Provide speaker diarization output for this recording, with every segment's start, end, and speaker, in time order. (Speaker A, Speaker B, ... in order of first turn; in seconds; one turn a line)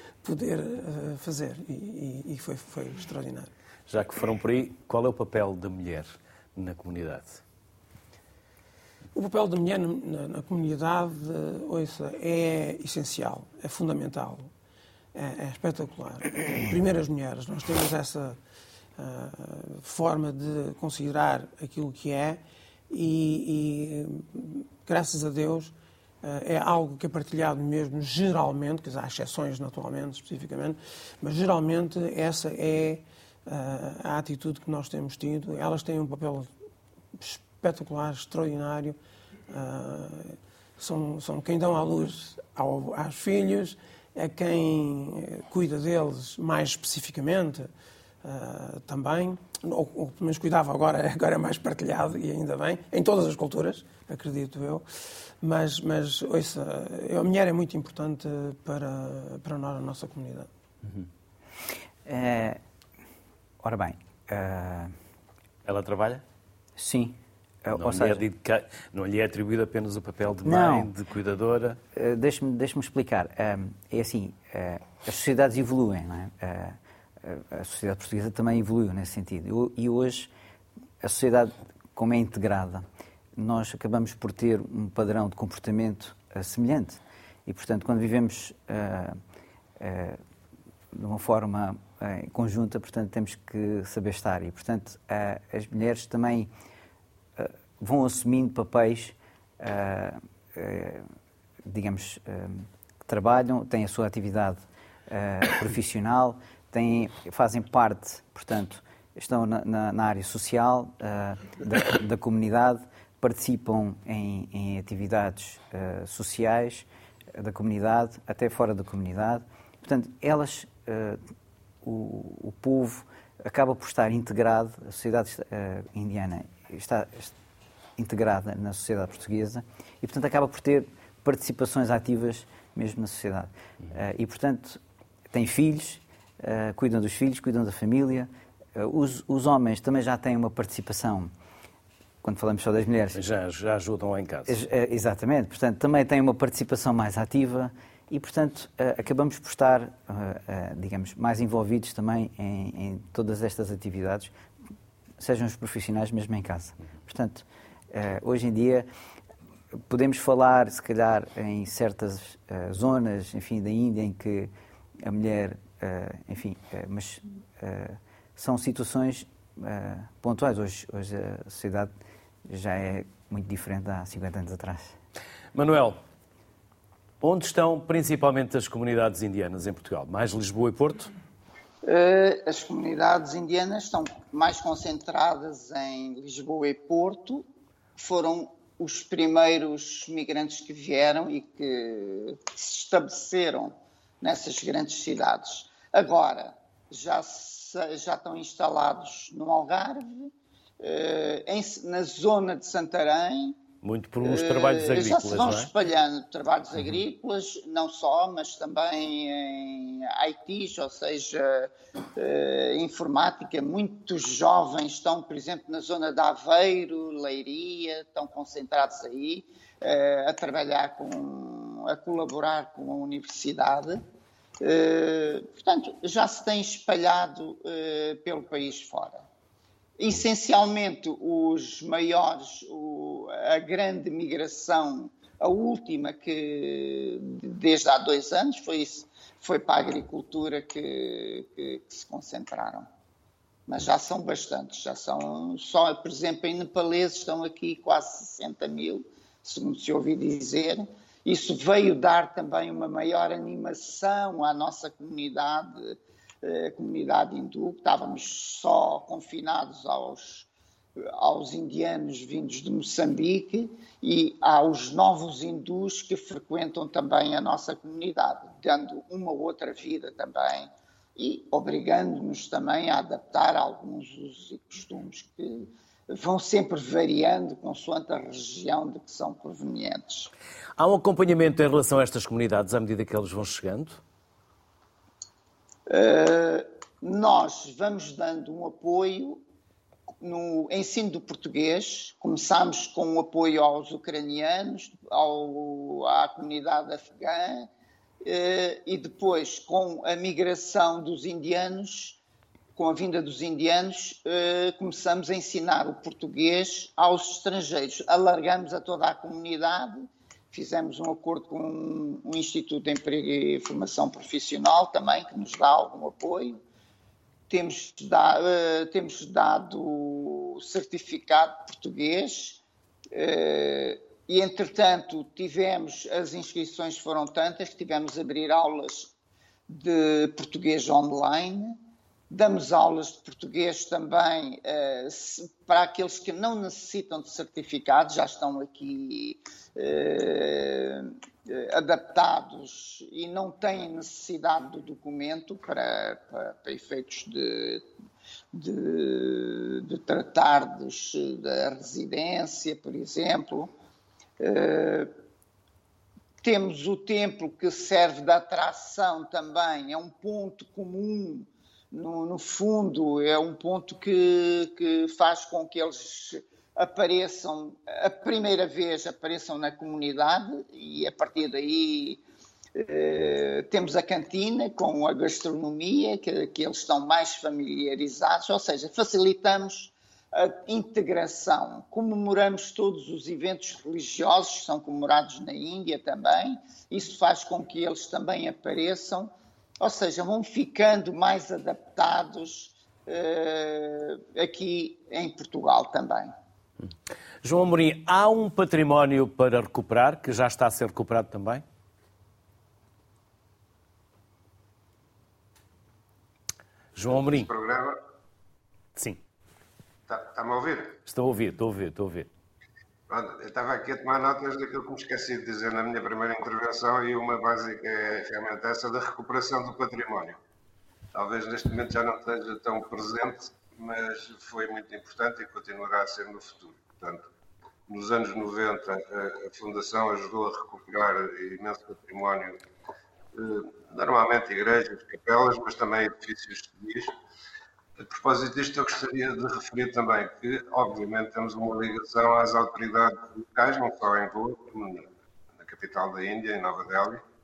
Speaker A: 0.2-3.5
Speaker B: 3.9-7.4
Speaker A: 9.1-14.5
Speaker A: 15.1-18.4
Speaker A: 19.0-36.5
Speaker A: 37.2-39.0
Speaker A: 39.5-47.7
Speaker A: 48.2-60.5
Speaker C: 62.1-62.6
Speaker C: 63.6-65.0
Speaker B: 65.7-66.2
Speaker C: 66.8-68.2
Speaker B: 67.8-71.8
Speaker C: 70.4-70.9
Speaker C: 71.9-80.3
Speaker C: 81.0-82.8
Speaker C: 83.4-89.2
Speaker C: 89.8-90.2
Speaker C: 90.9-96.5
Speaker C: 97.4-101.1
Speaker C: 101.7-121.2
Speaker C: 121.8-127.3
Speaker C: 128.0-141.3
Speaker C: 142.2-143.2
Speaker B: 143.2-144.6
Speaker C: 144.5-154.3
Speaker C: 155.2-158.9
Speaker C: 159.9-164.5
Speaker C: 165.0-171.9
Speaker C: 172.5-174.9
Speaker B: 175.6-176.0
Speaker B: 177.2-181.1
Speaker D: 181.8-187.4
Speaker D: 188.0-203.6
Speaker B: 203.8-205.7
Speaker D: 204.2-224.0
Speaker D: 224.6-229.2
Speaker D: 230.0-242.9
Speaker D: 243.7-260.5
Speaker D: 261.0-280.3
Speaker B: 280.8-284.0
Speaker D: 285.9-289.4
Speaker D: 290.2-297.7
Speaker D: 298.2-302.2
Speaker D: 302.8-316.6
Speaker D: 317.5-322.6
Speaker D: 323.1-329.1
Speaker D: 329.7-331.8
Speaker D: 332.3-347.9
Speaker D: 348.5-353.7
Speaker D: 354.4-355.1
Speaker D: 356.4-372.2
Speaker D: 372.8-396.3
Speaker B: 397.4-401.6
Speaker B: 406.9-407.5
Speaker E: 407.1-408.0
Speaker B: 409.0-409.2
Speaker E: 410.1-411.0
Speaker B: 411.1-412.3
Speaker E: 413.1-420.4
Speaker E: 421.1-427.3
Speaker E: 427.9-432.6
Speaker E: 433.3-437.1
Speaker E: 438.0-447.2